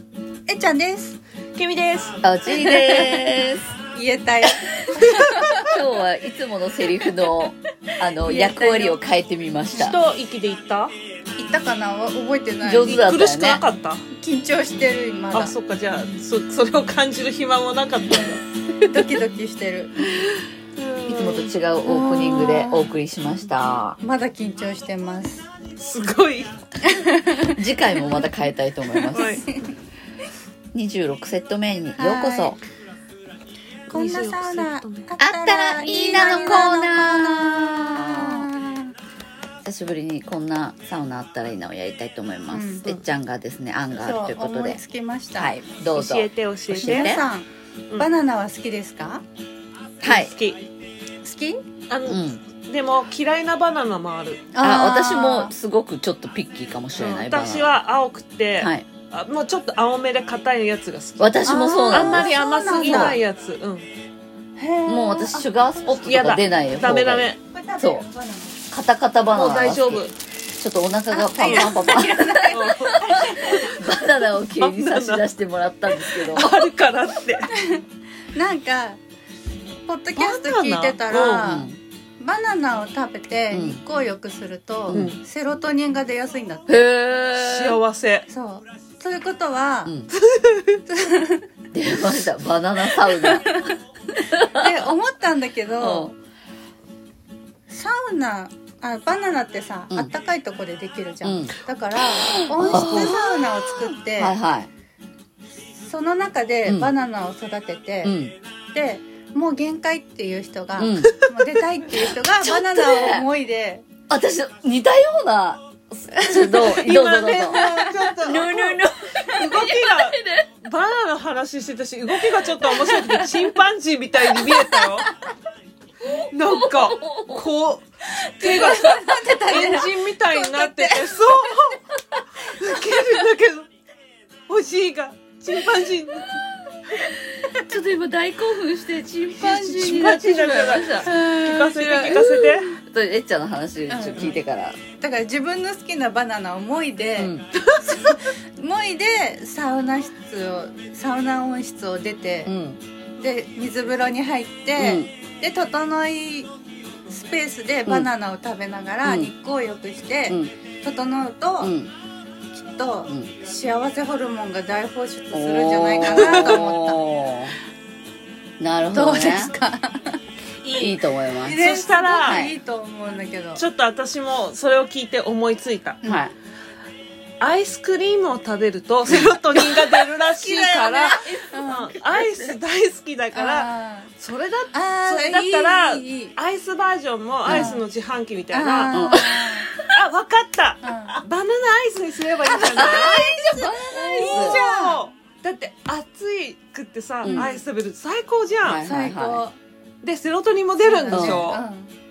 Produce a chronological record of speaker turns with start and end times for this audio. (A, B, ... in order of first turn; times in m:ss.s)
0:00.5-0:01.2 A
0:01.5-0:02.2 B
0:02.2-0:03.7 C
0:02.5-0:03.4 A
0:03.9-0:05.7 A
0:05.1-0:10.0 C
0:08.2-0:09.0 A
0:09.7-0:10.9 B
0:11.4-0:13.0 A
0:12.6-0:13.6 C
0:12.8-0:14.0 B
0:14.1-0:15.5 A
0:15.3-0:18.4 B
0:18.8-0:20.2 A
0:20.8-0:21.5 B
0:21.1-0:24.0 C
0:21.8-0:23.0 A
0:24.0-0:25.4 A
0:25.8-0:26.5 B
0:26.8-0:28.2 A
0:27.4-0:29.4 C
0:28.9-0:29.7 A
0:29.1-0:29.4 B
0:30.7-0:32.6 C
0:32.0-0:32.6 A
0:33.9-0:35.1 B
0:33.9-0:38.9 A
0:35.2-0:38.5 C
0:39.6-0:44.8 C
0:42.5-0:42.9 A
0:44.0-0:45.5 A
0:45.3-0:47.3 C
0:45.9-0:47.2 B
0:46.7-0:49.2 A
0:50.0-0:50.6 B
0:50.0-0:50.3 C
0:51.2-0:51.6 A
0:51.9-0:54.4 B
0:52.1-0:52.4 C
0:54.5-0:55.5 A
0:54.6-0:57.7 C
0:57.0-1:03.9 B
0:58.6-0:58.8 C
1:01.2-1:03.2 C
1:01.4-1:03.2 A
1:04.6-1:05.5 A
1:04.9-1:08.0 C
1:06.0-1:07.4 B
1:07.4-1:08.6 A
1:08.7-1:16.7 C
1:09.3-1:10.1 B
1:11.1-1:13.7 A
1:12.5-1:15.2 B
1:16.0-1:17.5 B
1:17.5-1:17.8 A
1:18.3-1:19.0 A
1:19.8-1:26.8 A
1:20.2-1:21.5 B
1:21.4-1:21.8 C
1:23.5-1:23.8 C
1:24.9-1:25.2 B
1:26.7-1:27.8 C
1:27.3-1:28.2 B
1:28.3-1:30.0 A
1:30.1-1:30.8 B
1:30.9-1:31.5 A
1:31.7-1:33.6 C
1:33.0-1:33.7 A
1:34.3-1:34.7 C
1:34.3-1:36.1 A
1:35.8-1:36.1 C
1:37.7-1:44.4 A
1:41.2-1:41.6 C
1:42.5-1:43.4 C
1:42.7-1:43.1 B
1:44.1-1:44.7 C
1:45.7-1:48.2 A
1:48.0-1:48.4 C
1:48.7-1:53.8 A
1:50.8-1:51.2 C
1:51.0-1:51.3 B
1:52.4-1:53.3 C
1:54.1-2:00.5 C
1:56.1-1:56.8 A
1:56.6-2:05.1 B
1:57.4-1:58.4 A
2:02.6-2:03.4 C
2:06.3-2:07.8 B
2:06.5-2:07.4 C
2:08.2-2:11.3 A
2:08.4-2:11.8 B
2:12.4-2:13.7 B
2:14.5-2:16.4 B
2:17.4-2:21.2 C
2:19.4-2:22.8 B
2:21.0-2:22.3 A
2:22.1-2:24.8 C
2:23.9-2:24.4 A
2:25.0-2:32.5 A
2:27.2-2:27.5 C
2:32.4-2:32.8 C
2:33.2-2:36.5 A
2:34.8-2:35.1 C
2:37.1-2:41.7 A
2:39.0-2:39.3 C
2:41.6-2:41.9 C
2:42.5-2:47.0 A
2:45.3-2:47.6 C
2:46.2-2:46.6 B
2:48.6-2:49.5 C
2:48.9-2:50.2 A
2:50.7-2:51.6 C
2:51.4-2:53.6 A
2:51.5-2:52.4 B
2:52.2-2:52.5 C
2:53.6-2:56.0 B
2:56.0-2:56.3 A
2:56.0-2:56.3 C
2:57.4-3:03.7 B
2:59.1-2:59.4 C
3:00.4-3:02.5 A
3:00.5-3:01.7 C
3:03.3-3:04.1 A
3:04.2-3:09.2 B
3:04.7-3:06.4 A
3:07.4-3:07.8 C
3:07.5-3:07.8 A
3:08.5-3:09.7 A
3:08.9-3:09.8 C
3:09.8-3:13.2 B
3:10.8-3:11.2 A
3:12.4-3:15.0 A
3:12.7-3:14.6 C
3:14.1-3:18.9 B
3:17.2-3:17.6 C
3:17.2-3:17.6 A
3:18.6-3:19.4 C
3:18.8-3:19.6 A
3:20.0-3:21.6 B
3:20.8-3:21.9 A
3:21.1-3:21.4 C